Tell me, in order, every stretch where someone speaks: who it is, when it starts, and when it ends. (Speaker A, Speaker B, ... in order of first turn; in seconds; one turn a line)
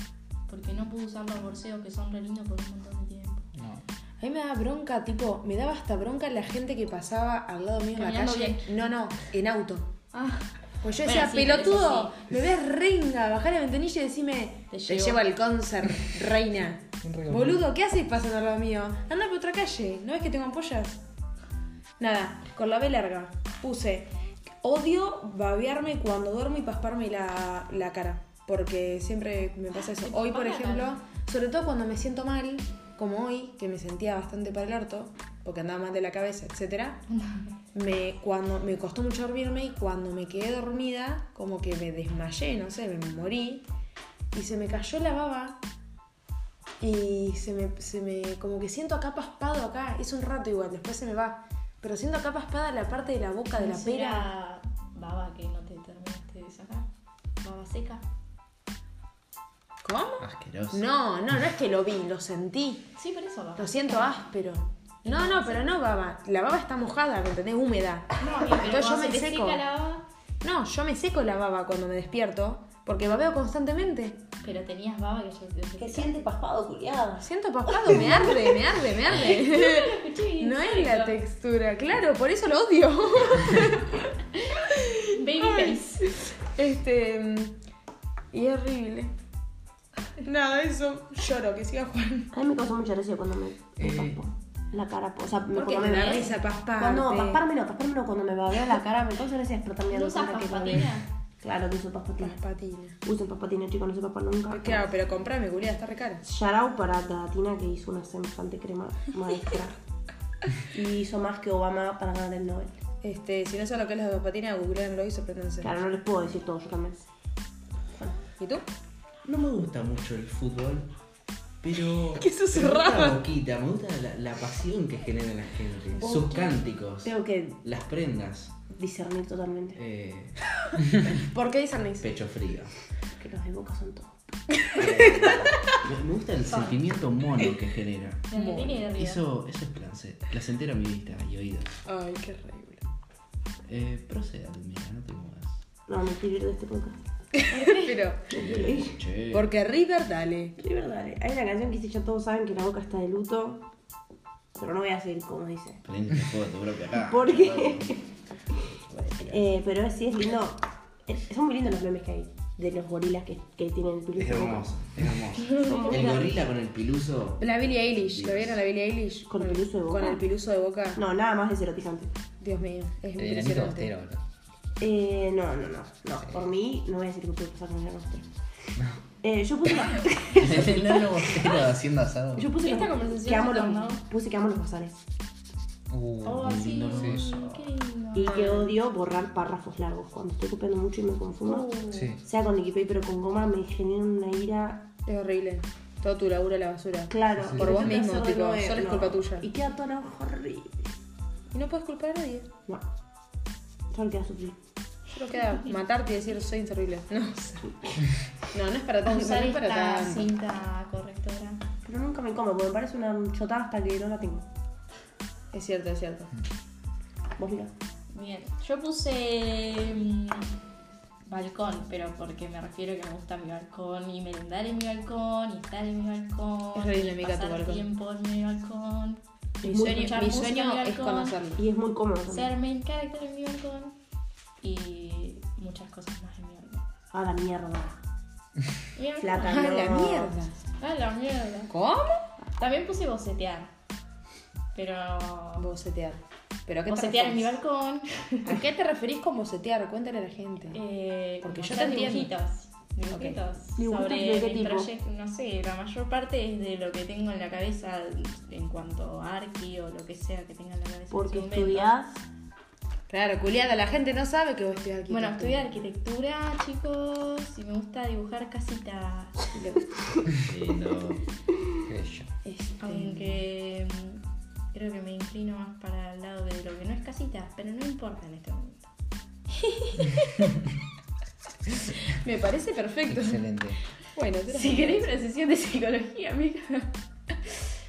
Speaker A: 0.5-3.5
Speaker B: 3.5-3.8
Speaker C: 4.2-9.9
Speaker A: 8.0-8.7
Speaker A: 10.1-10.5
Speaker C: 10.8-21.0
Speaker A: 11.0-12.1
Speaker A: 14.7-15.2
Speaker B: 17.0-17.6
Speaker C: 22.0-24.1
Speaker C: 24.6-37.0
Speaker A: 29.8-30.9
Speaker A: 37.1-37.5
Speaker C: 37.7-43.6
Speaker C: 44.3-45.6
Speaker C: 46.8-54.3
Speaker A: 53.5-56.9
Speaker A: 57.4-58.0
Speaker C: 59.8-62.9
Speaker D: 60.2-60.8
Speaker A: 63.0-64.2
Speaker C: 63.6-69.6
Speaker A: 65.0-65.7
Speaker A: 68.2-70.0
Speaker C: 70.4-74.2
Speaker A: 74.4-76.2
Speaker E: 75.8-77.2
Speaker C: 77.2-84.1
Speaker E: 77.8-78.6
Speaker A: 79.1-81.2
Speaker A: 84.5-86.0
Speaker C: 84.7-85.8
Speaker C: 86.5-87.6
Speaker C: 88.3-89.1
Speaker C: 90.2-92.3
Speaker E: 92.3-102.4
Speaker D: 93.8-94.2
Speaker C: 95.5-97.4
Speaker A: 96.0-96.3
Speaker A: 99.9-101.0
Speaker C: 102.2-103.0
Speaker E: 103.0-104.9
Speaker C: 104.5-106.2
Speaker E: 106.2-109.8
Speaker E: 110.7-112.8
Speaker C: 113.0-115.7
Speaker E: 115.6-117.0
Speaker E: 117.9-118.2
Speaker C: 118.4-118.6
Speaker D: 119.2-120.9
Speaker D: 121.6-128.6
Speaker C: 122.2-123.2
Speaker E: 126.0-126.5
Speaker E: 127.0-127.6
Speaker E: 128.7-129.8
Speaker D: 129.8-130.4
Speaker C: 131.1-132.1
Speaker D: 132.0-132.7
Speaker E: 133.2-134.1
Speaker D: 134.8-138.3
Speaker E: 134.8-135.5
Speaker A: 136.5-136.8
Speaker A: 138.3-139.2
Speaker C: 138.3-138.8
Speaker D: 138.9-141.8
Speaker C: 141.8-142.8
Speaker D: 143.7-145.6
Speaker E: 145.9-146.9
Speaker C: 147.4-148.5
Speaker A: 147.5-148.0
Speaker E: 148.3-149.0
Speaker D: 148.3-149.5
Speaker C: 149.3-150.6
Speaker E: 150.6-153.7
Speaker E: 154.5-155.8
Speaker D: 155.8-157.9
Speaker E: 156.9-158.0
Speaker D: 158.9-159.4
Speaker E: 159.2-164.7
Speaker D: 164.2-168.6
Speaker A: 165.5-166.1
Speaker E: 165.5-166.4
Speaker C: 167.4-171.0
Speaker E: 169.3-170.2
Speaker E: 170.9-172.1
Speaker C: 172.4-173.9
Speaker B: 173.2-174.2
Speaker E: 174.8-178.3
Speaker E: 179.2-181.6
Speaker D: 180.4-182.5
Speaker E: 182.3-185.0
Speaker A: 182.6-184.0
Speaker B: 185.9-187.3
Speaker A: 186.2-188.5
Speaker D: 186.3-187.7
Speaker E: 188.1-194.9
Speaker C: 188.3-188.7
Speaker A: 191.4-192.0
Speaker B: 191.9-192.2
Speaker C: 195.1-199.5
Speaker E: 197.1-200.9
Speaker B: 197.4-198.0
Speaker C: 201.5-202.5
Speaker E: 203.9-204.6
Speaker C: 205.1-210.3
Speaker A: 209.1-211.6
Speaker E: 211.8-214.5
Speaker C: 215.5-216.3
Speaker E: 217.4-217.7
Speaker A: 218.1-220.5
Speaker A: 221.2-231.4
Speaker C: 226.7-227.8
Speaker C: 229.6-231.6
Speaker E: 229.6-230.2
Speaker E: 231.6-232.5
Speaker A: 232.3-233.9
Speaker A: 234.6-236.8
Speaker E: 237.1-238.0
Speaker A: 238.9-239.9
Speaker E: 239.2-240.3
Speaker C: 239.4-240.6
Speaker A: 240.8-241.7
Speaker C: 241.7-242.3
Speaker A: 242.6-243.7
Speaker A: 244.7-245.7
Speaker C: 245.6-247.5
Speaker A: 246.9-248.6
Speaker C: 248.4-250.8
Speaker A: 250.7-261.9
Speaker C: 251.4-252.3
Speaker C: 253.1-253.4
Speaker E: 253.8-254.9
Speaker E: 261.1-262.2
Speaker C: 263.1-265.6
Speaker A: 265.1-269.5
Speaker C: 269.5-269.8
Speaker D: 270.4-271.2
Speaker B: 271.9-272.3
Speaker C: 272.4-273.4
Speaker A: 272.8-274.2
Speaker A: 274.7-278.9
Speaker A: 279.6-280.4
Speaker C: 282.1-283.4
Speaker B: 283.1-283.8
Speaker C: 284.1-285.1
Speaker A: 284.5-286.9